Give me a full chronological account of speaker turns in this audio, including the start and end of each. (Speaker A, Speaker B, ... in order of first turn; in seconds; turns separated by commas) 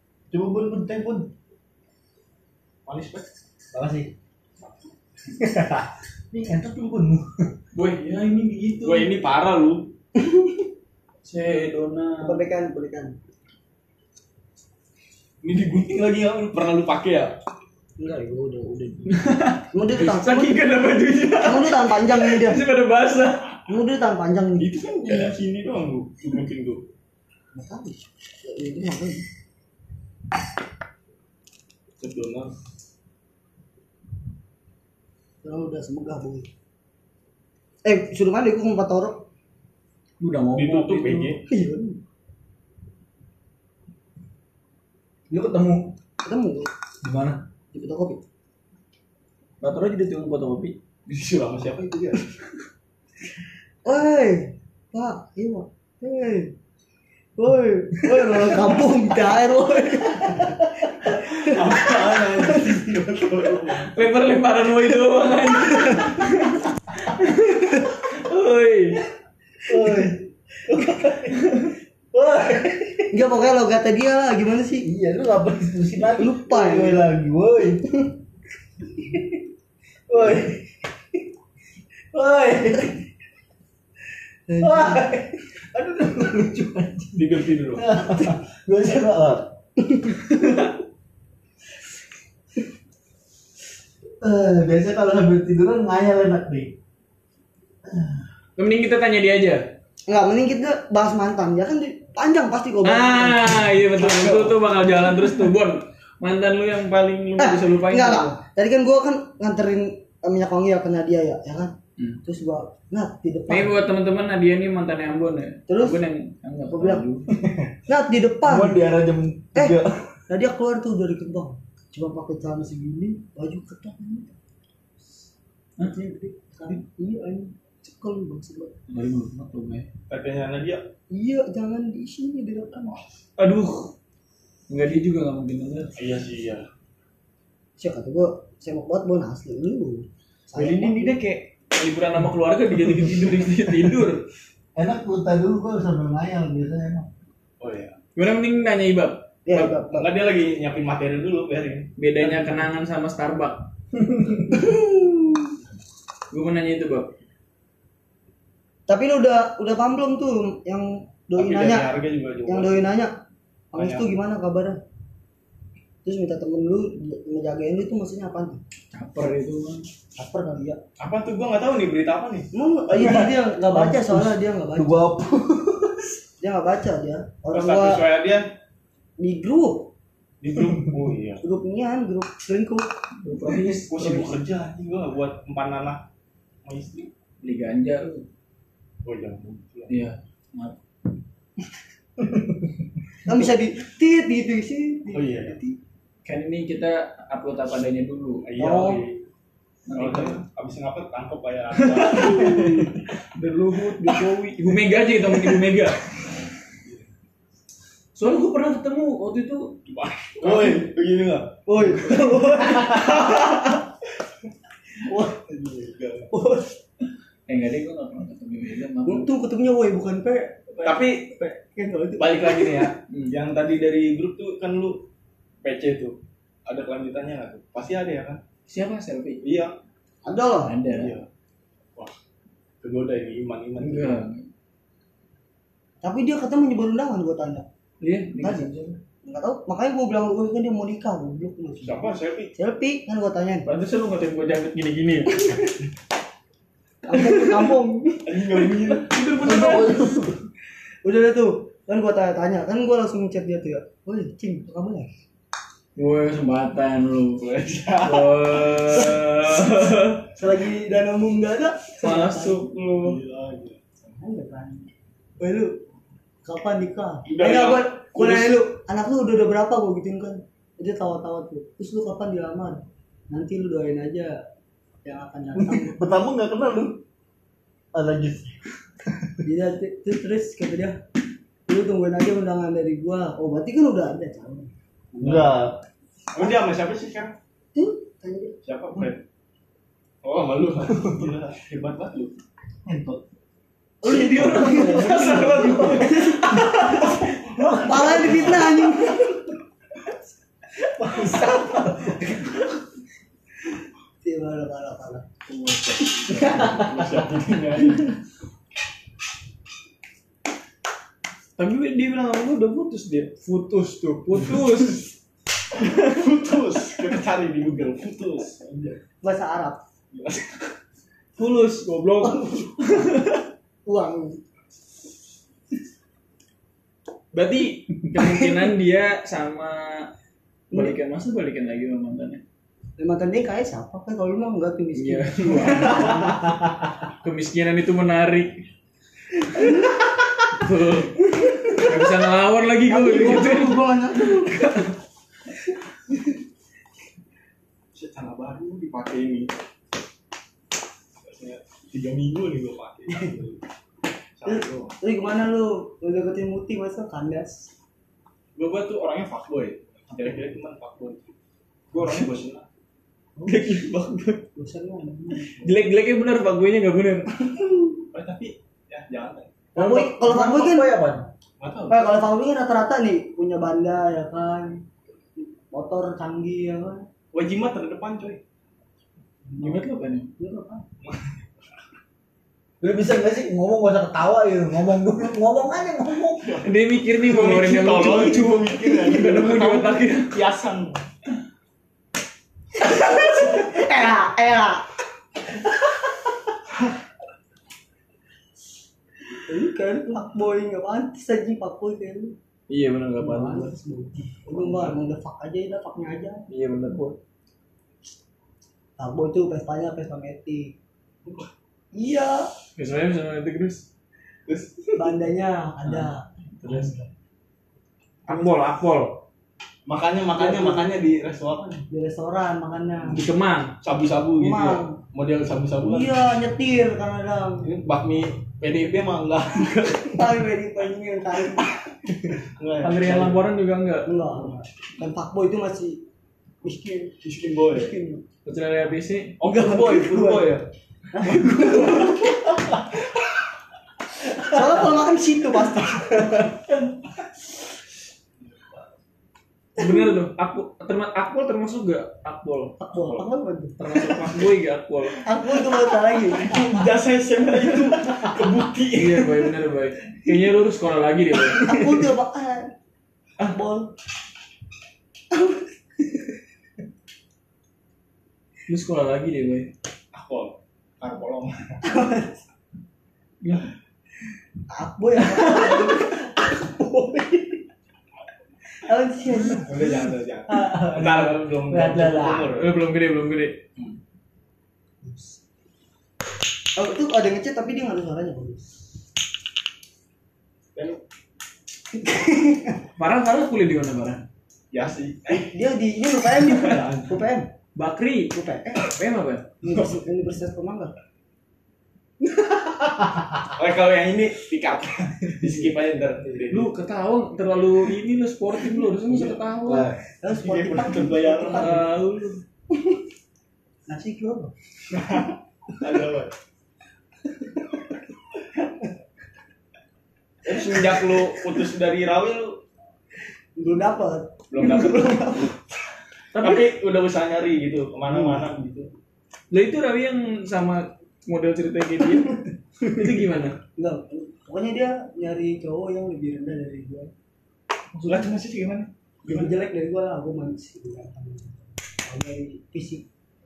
Speaker A: 0.3-1.3, Speaker B: 2.9-3.3, Speaker A: 3.7-4.1, Speaker A: 5.3-7.5, Speaker C: 7.7-9.2, Speaker B: 8.8-9.9, Speaker C: 11.2-12.4, Speaker D: 12.2-13.2, Speaker B: 15.4-17.3, Speaker D: 18.0-20.6, Speaker C: 19.1-23.6, Speaker D: 21.4-22.6, Speaker D: 23.7-24.7, Speaker B: 24.6-26.8, Speaker D: 27.5-29.2, Speaker B: 32.0-32.5, Speaker D: 35.4-36.5, Speaker D: 37.8-39.2, Speaker C: 40.2-41.3, Speaker B: 40.5-41.4, Speaker D: 41.5-42.0, Speaker A: 45.3-45.9, Speaker D: 46.2-46.7, Speaker A: 47.0-47.4, Speaker D: 47.7-48.2, Speaker C: 49.6-50.8, Speaker B: 51.1-52.3, Speaker D: 53.8-56.5, Speaker D: 57.4-62.8, Speaker B: 61.1-64.0, Speaker C: 63.9-69.0, Speaker A: 69.7-73.1, Speaker C: 71.4-71.7, Speaker D: 73.1-74.9, Speaker A: 74.8-77.8, Speaker D: 76.2-77.0, Speaker A: 79.0-79.3, Speaker A: 80.1-80.7, Speaker A: 82.1-83.0, Speaker D: 84.5-85.1, Speaker A: 84.6-89.5, Speaker B: 87.2-87.9, Speaker D: 89.8-90.2, Speaker A: 94.2-96.7, Speaker A: 97.9-98.2, Speaker C: 98.6-99.6, Speaker D: 100.1-104.5, Speaker C: 102.8-108.3, Speaker D: 107.4-113.7, Speaker C: 113.5-117.3, Speaker D: 115.7-116.0, Speaker D: 116.7-117.0, Speaker A: 117.4-117.7, Speaker D: 117.9-118.8, Speaker A: 118.4-119.9, Speaker D: 120.3-124.3, Speaker D: 125.8-128.7, Speaker C: 128.9-129.9, Speaker B: 130.1-130.8, Speaker D: 131.1-132.9, Speaker B: 132.9-133.2, Speaker C: 133.4-133.9, Speaker C: 134.7-135.9, Speaker B: 135.9-136.7, Speaker D: 137.8-141.2, Speaker C: 140.5-144.2, Speaker A: 144.7-147.1, Speaker B: 147.6-147.9, Speaker C: 148.2-149.7, Speaker D: 149.4-150.1, Speaker B: 149.9-151.9, Speaker C: 152.0-154.6, Speaker D: 154.6-155.1, Speaker C: 156.3-157.1, Speaker D: 158.9-161.9, Speaker B: 161.4-162.8, Speaker D: 162.4-163.2, Speaker D: 163.7-164.8, Speaker B: 163.7-164.1, Speaker D: 166.0-168.6, Speaker C: 168.9-169.9, Speaker D: 170.1-170.8, Speaker B: 171.0-172.5, Speaker D: 172.5-175.0, Speaker A: 172.9-176.1, Speaker D: 176.4-178.0, Speaker B: 177.5-178.5, Speaker D: 179.2-179.9, Speaker B: 180.4-181.4, Speaker D: 181.4-182.9, Speaker C: 183.2-184.4, Speaker B: 183.9-186.0, Speaker B: 186.6-187.1, Speaker C: 187.4-188.2, Speaker B: 189.0-189.9, Speaker C: 189.9-190.8, Speaker D: 193.2-195.8, Speaker B: 195.1-195.6, Speaker C: 196.2-198.4, Speaker B: 198.4-199.2, Speaker D: 198.6-199.0, Speaker C: 199.9-200.4, Speaker B: 199.9-203.1, Speaker C: 201.7-206.1, Speaker C: 208.1-209.8, Speaker B: 209.8-213.6, Speaker C: 210.4-210.7, Speaker D: 211.7-213.6, Speaker D: 215.1-215.4, Speaker B: 215.4-216.3, Speaker D: 216.3-216.7, Speaker C: 217.5-219.3, Speaker D: 219.0-220.9, Speaker B: 220.8-221.3, Speaker D: 221.4-222.9, Speaker B: 222.2-225.1, Speaker C: 223.1-223.3, Speaker B: 225.6-228.4, Speaker C: 228.7-229.4, Speaker B: 229.4-229.8, Speaker D: 230.2-230.8, Speaker C: 230.6-231.1, Speaker B: 230.8-231.3, Speaker B: 232.8-234.2, Speaker C: 233.8-234.5, Speaker D: 236.0-237.7, Speaker C: 238.0-238.9, Speaker D: 238.4-243.7, Speaker B: 241.8-242.5, Speaker C: 243.7-245.6, Speaker D: 245.4-245.7, Speaker D: 247.1-248.4, Speaker C: 247.1-247.7, Speaker B: 248.2-249.2, Speaker C: 248.6-250.1, Speaker A: 249.4-250.4, Speaker D: 251.0-255.1, Speaker C: 255.9-260.3, Speaker B: 257.4-259.3, Speaker D: 259.4-262.6, Speaker C: 262.0-263.2, Speaker B: 262.9-263.8, Speaker D: 264.1-264.9, Speaker D: 265.4-265.8, Speaker D: 266.4-274.4, Speaker B: 267.2-268.6, Speaker D: 275.0-275.9, Speaker A: 275.5-277.0, Speaker A: 277.9-279.3, Speaker D: 279.4-281.0, Speaker D: 281.7-284.7, Speaker B: 285.1-285.6, Speaker A: 285.2-285.8, Speaker B: 286.3-287.3, Speaker D: 287.7-288.6, Speaker B: 288.6-289.2, Speaker B: 290.2-292.4, Speaker A: 292.8-293.2, Speaker D: 294.0-299.5, Speaker C: 294.0-296.7, Speaker B: 294.4-296.1, Speaker A: 294.5-296.2, Speaker A: 297.6-298.2, Speaker B: 297.7-298.5, Speaker D: 301.0-302.5, Speaker A: 301.0-301.5, Speaker D: 304.2-305.2, Speaker B: 305.5-308.2, Speaker C: 305.6-306.7, Speaker C: 311.6-315.1, Speaker B: 315.7-318.7, Speaker D: 319.2-319.8, Speaker B: 320.1-320.8, Speaker C: 321.4-323.4, Speaker D: 322.2-322.7, Speaker D: 323.9-324.4, Speaker C: 327.3-330.1, Speaker C: 330.7-332.4, Speaker D: 333.0-336.4, Speaker C: 334.9-336.6, Speaker C: 337.1-338.6, Speaker C: 340.5-343.9, Speaker D: 341.5-341.9, Speaker D: 342.9-344.7, Speaker B: 347.9-349.6, Speaker B: 351.2-353.6, Speaker B: 354.4-354.9, Speaker D: 354.4-357.7, Speaker B: 358.6-361.3, Speaker B: 361.9-362.6, Speaker D: 363.4-363.7, Speaker C: 363.4-364.4, Speaker D: 364.5-365.5, Speaker C: 365.6-367.3, Speaker B: 368.1-369.5, Speaker D: 369.7-370.9, Speaker A: 369.7-371.3, Speaker B: 371.6-372.1, Speaker D: 371.9-374.8, Speaker D: 375.7-377.1, Speaker B: 377.3-378.4, Speaker D: 379.5-379.8, Speaker C: 379.6-380.3, Speaker D: 380.4-380.8, Speaker B: 381.0-381.3, Speaker A: 382.8-386.6, Speaker B: 386.4-391.0, Speaker C: 386.6-390.4, Speaker D: 392.8-394.9, Speaker D: 399.5-402.3, Speaker C: 402.7-403.7, Speaker D: 403.2-406.4, Speaker B: 404.5-404.9, Speaker C: 406.5-407.2, Speaker D: 409.0-410.7, Speaker D: 411.9-412.5, Speaker C: 412.8-413.9, Speaker B: 414.5-415.1, Speaker D: 414.9-417.1, Speaker C: 416.6-416.9, Speaker C: 418.2-419.2, Speaker B: 418.3-418.6, Speaker B: 419.9-421.9, Speaker D: 420.4-420.9, Speaker D: 421.9-423.2, Speaker C: 423.1-423.7, Speaker B: 423.8-426.1, Speaker D: 424.4-425.0, Speaker D: 425.8-427.6, Speaker B: 427.6-430.4, Speaker D: 430.1-431.7, Speaker B: 432.3-433.4, Speaker C: 432.8-434.1, Speaker D: 434.0-436.0, Speaker D: 436.6-437.2, Speaker B: 437.2-437.9, Speaker D: 437.7-438.2, Speaker C: 438.4-439.4, Speaker B: 439.4-440.7, Speaker D: 439.4-440.6, Speaker D: 441.1-442.3, Speaker C: 441.5-442.2, Speaker D: 444.3-446.5, Speaker B: 448.4-448.8, Speaker C: 449.8-452.8, Speaker D: 449.8-450.1, Speaker D: 452.8-453.8, Speaker C: 453.8-455.4, Speaker D: 455.2-456.8, Speaker B: 456.2-459.5, Speaker C: 458.9-462.0, Speaker D: 461.6-462.7, Speaker D: 463.4-463.9, Speaker D: 465.3-465.6, Speaker C: 468.7-469.7, Speaker B: 470.1-471.8, Speaker D: 471.8-472.4, Speaker D: 474.7-476.6, Speaker D: 478.8-479.7, Speaker B: 479.6-482.7, Speaker A: 480.5-482.6, Speaker C: 482.5-483.6, Speaker D: 486.7-488.7, Speaker D: 492.0-492.8, Speaker C: 493.0-494.2, Speaker B: 494.7-495.6, Speaker D: 495.5-497.5, Speaker B: 496.2-497.1, Speaker C: 497.8-499.6, Speaker D: 498.3-498.9, Speaker D: 499.6-500.9, Speaker B: 503.5-506.7, Speaker C: 506.5-509.9, Speaker B: 509.1-509.3, Speaker A: 509.6-510.0, Speaker D: 510.2-511.9, Speaker B: 510.3-511.9, Speaker C: 511.5-512.4, Speaker D: 513.9-514.5, Speaker B: 514.9-516.3, Speaker B: 520.4-522.6, Speaker D: 523.6-525.5, Speaker B: 524.5-525.5, Speaker C: 526.3-526.7, Speaker B: 526.3-528.9, Speaker C: 529.5-533.6, Speaker D: 533.8-537.1, Speaker B: 538.0-539.5, Speaker D: 539.2-543.0